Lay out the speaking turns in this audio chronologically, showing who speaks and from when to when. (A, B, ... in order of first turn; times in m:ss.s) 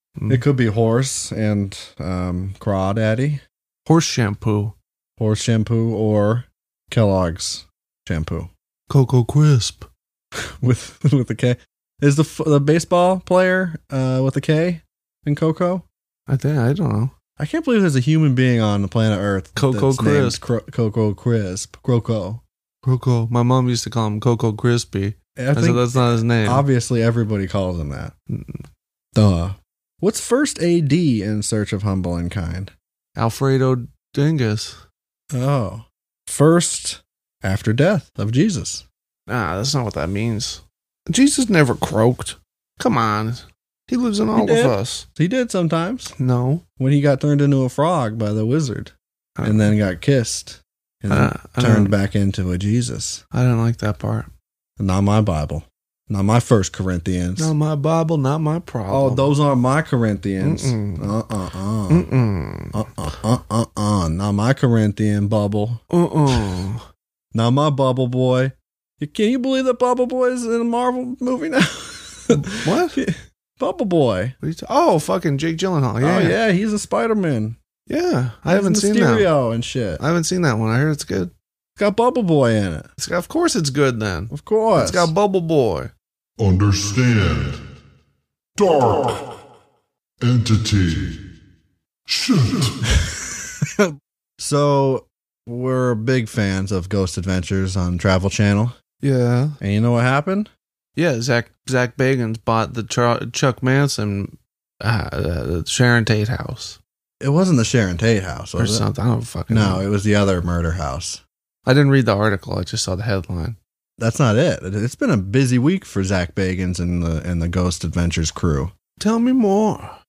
0:00.2-0:00.4 A
0:00.3-0:03.4 B
0:03.8-0:04.7 A
0:05.2-0:08.5 B
0:08.9-0:09.9 A
0:10.6-0:15.8 B
0:16.3-0:17.1 A
0:17.4-0:22.4 B
0:19.6-0:20.4 A
0:22.8-0:26.6 A
0:25.4-0:28.1 B
0:28.3-0:28.6 A
0:29.1-0:32.7 B
0:33.2-0:34.8 A
0:35.3-0:38.8 B
0:39.3-0:45.0 A
0:44.3-0:46.1 B
0:46.2-0:46.6 A
0:46.8-0:53.2 B
0:49.4-0:49.7 A
0:51.1-0:51.9 A
0:53.3-0:54.3 A
0:54.8-0:57.5 B
0:57.4-0:59.3 A
0:58.9-1:02.1 B
1:00.4-1:01.1 A
1:01.9-1:02.8 A
1:02.7-1:05.8 B
1:05.9-1:06.8 A
1:07.3-1:14.4 B
1:12.3-1:13.0 A
1:14.4-1:16.4 A
1:16.0-1:17.6 B
1:17.9-1:19.3 A
1:18.5-1:20.0 B
1:20.0-1:21.3 A
1:21.8-1:22.9 B
1:23.0-1:25.9 A
1:24.3-1:25.1 B
1:26.4-1:27.6 C
1:28.6-1:29.3 C
1:30.2-1:31.2 C
1:32.1-1:32.8 C
1:34.4-1:38.8 B
1:39.0-1:39.6 A
1:39.6-1:40.5 B
1:41.0-1:46.8 A
1:47.2-1:48.8 B
1:48.6-1:49.8 A
1:49.5-1:51.2 B
1:51.6-1:53.6 A
1:54.0-1:58.7 B
1:59.0-2:00.0 A